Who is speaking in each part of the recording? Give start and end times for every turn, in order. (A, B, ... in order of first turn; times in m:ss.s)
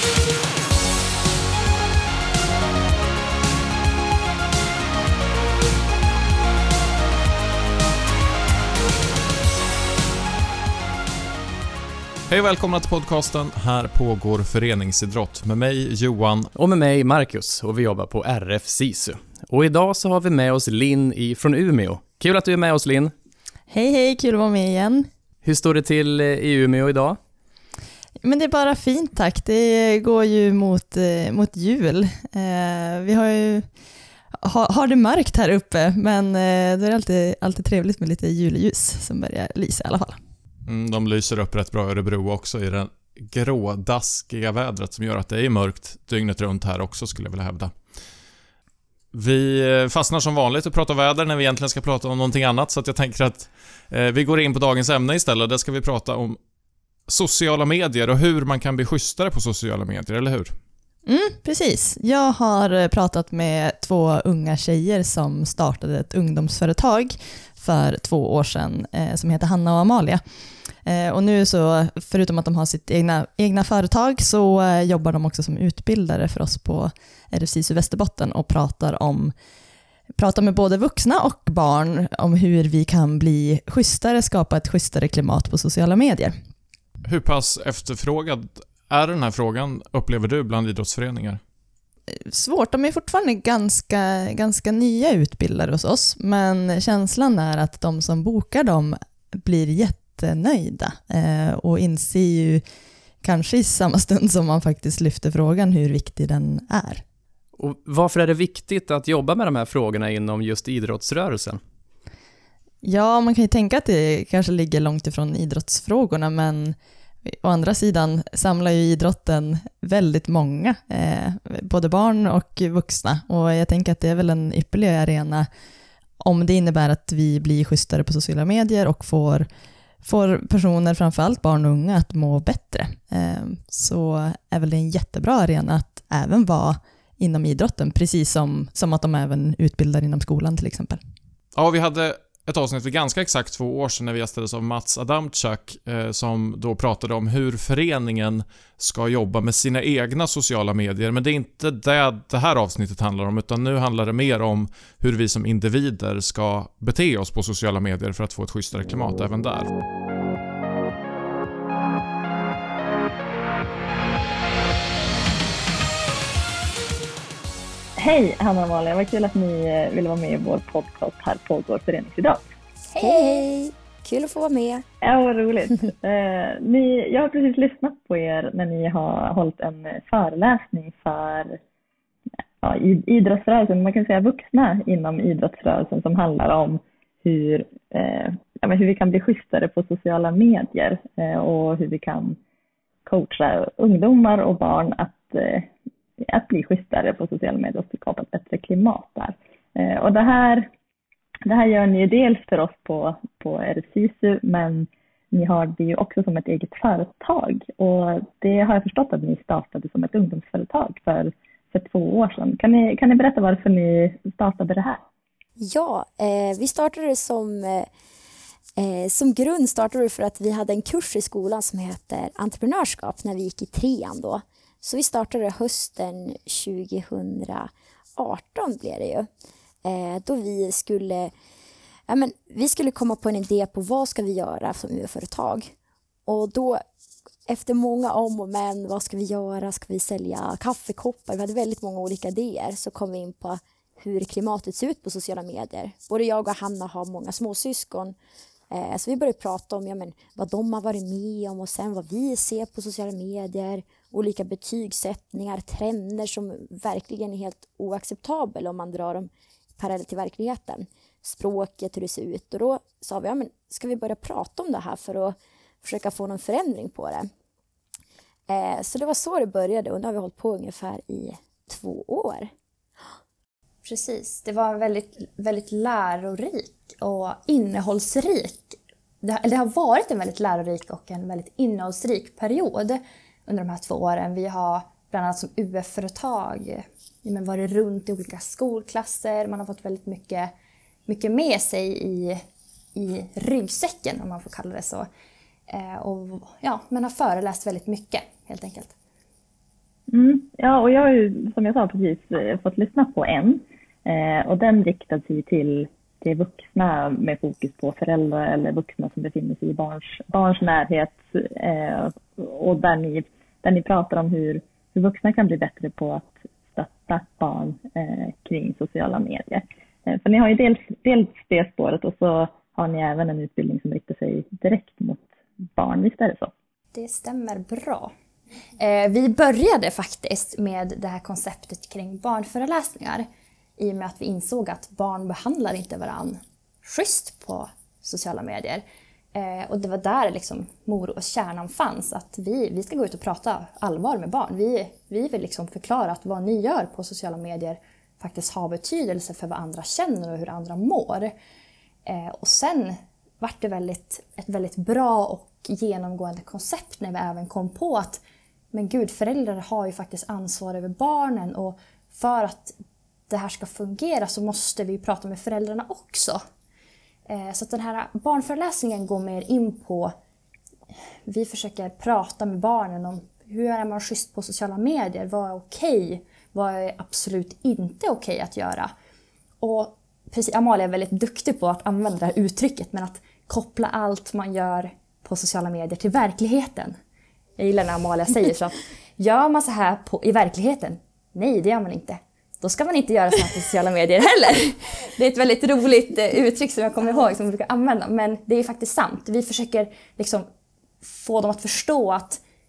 0:12.3-0:16.5 A
0:16.6-0:23.1 B
0:23.7-0:25.1 C
0:25.4-0:27.2 B
0:28.2-0:33.7 C
0:34.4-0:40.2 C
0:40.7-0:47.7 A
0:49.1-0:56.4 A
0:57.1-1:00.5 A
1:01.0-1:10.2 C
1:10.8-1:19.3 C
1:20.2-1:26.3 C
1:27.0-1:31.4 A
1:32.1-1:42.6 C
1:43.2-1:47.0 C
1:47.6-1:51.6 B
1:52.8-2:05.5 C
2:06.2-2:09.5 C
2:10.0-2:21.0 C
2:21.5-2:39.7 A
2:48.0-2:52.4 D
2:53.0-2:54.8 E
2:55.0-3:01.6 D
3:02.6-3:12.4 D
3:13.0-3:15.7 D
3:16.2-3:20.7 D
3:21.5-3:35.0 D
3:35.6-3:37.9 E
3:38.8-3:49.3 E
3:49.8-3:51.3 E
3:52.1-3:55.7 E
3:56.2-3:56.8 E
3:57.5-4:08.1 E
4:08.7-4:27.3 E
4:28.5-4:32.5 E
4:33.8-4:50.5 F
4:51.1-4:52.4 F
4:52.9-4:55.1 F
4:55.7-4:58.9 F
5:00.1-5:26.5 D
5:26.9-5:28.1 F
5:28.8-5:33.3 F
5:33.8-5:38.8 F
5:39.3-5:51.3 F
5:52.0-6:02.8 F
6:03.3-6:06.4 F
6:07.3-6:10.1 F
6:11.2-6:18.9 F
6:19.6-6:27.0 F
6:27.6-6:40.5 F
6:41.0-6:42.4 F